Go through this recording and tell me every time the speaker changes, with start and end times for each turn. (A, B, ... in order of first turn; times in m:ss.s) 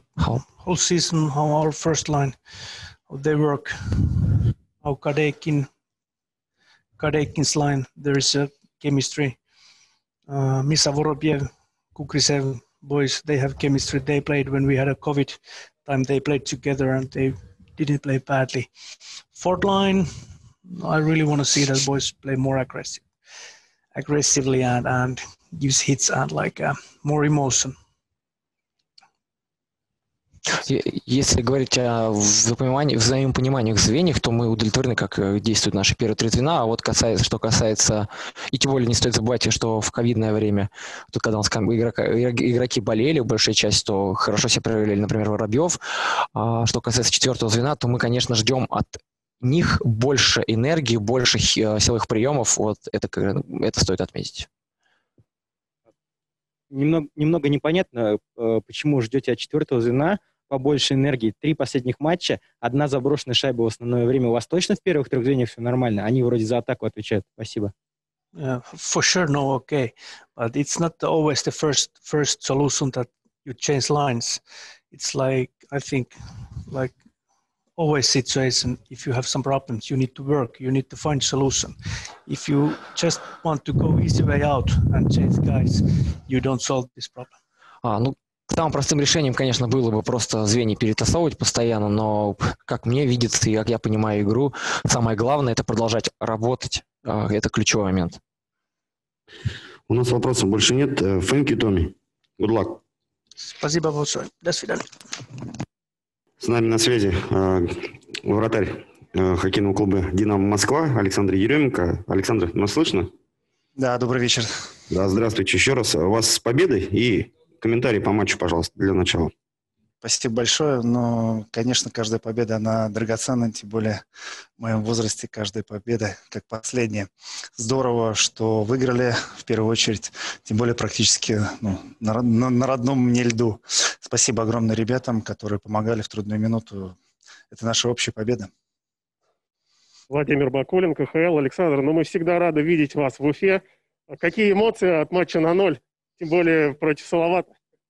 0:00.5-0:02.4 A
0:03.1-0:05.7 A
0:07.0-0:09.4 A
0:10.3-0:18.7 A
0:19.3-0:20.1 A
0:20.6-0:23.1 A
0:23.9-0:27.8 A
0:30.6-0:45.8 B
0:46.3-0:54.5 B
0:56.7-1:07.7 C
1:08.3-1:16.2 A
1:16.7-1:17.0 A
1:17.8-1:27.4 A
1:27.8-1:38.2 B
1:39.9-1:42.8 D
1:43.4-1:44.9 A
1:46.4-1:53.1 D
1:53.8-1:54.5 E
1:54.9-1:59.3 D
2:00.0-2:04.0 E
2:04.6-2:17.0 E
2:17.5-2:18.5 E
2:20.1-2:27.5 F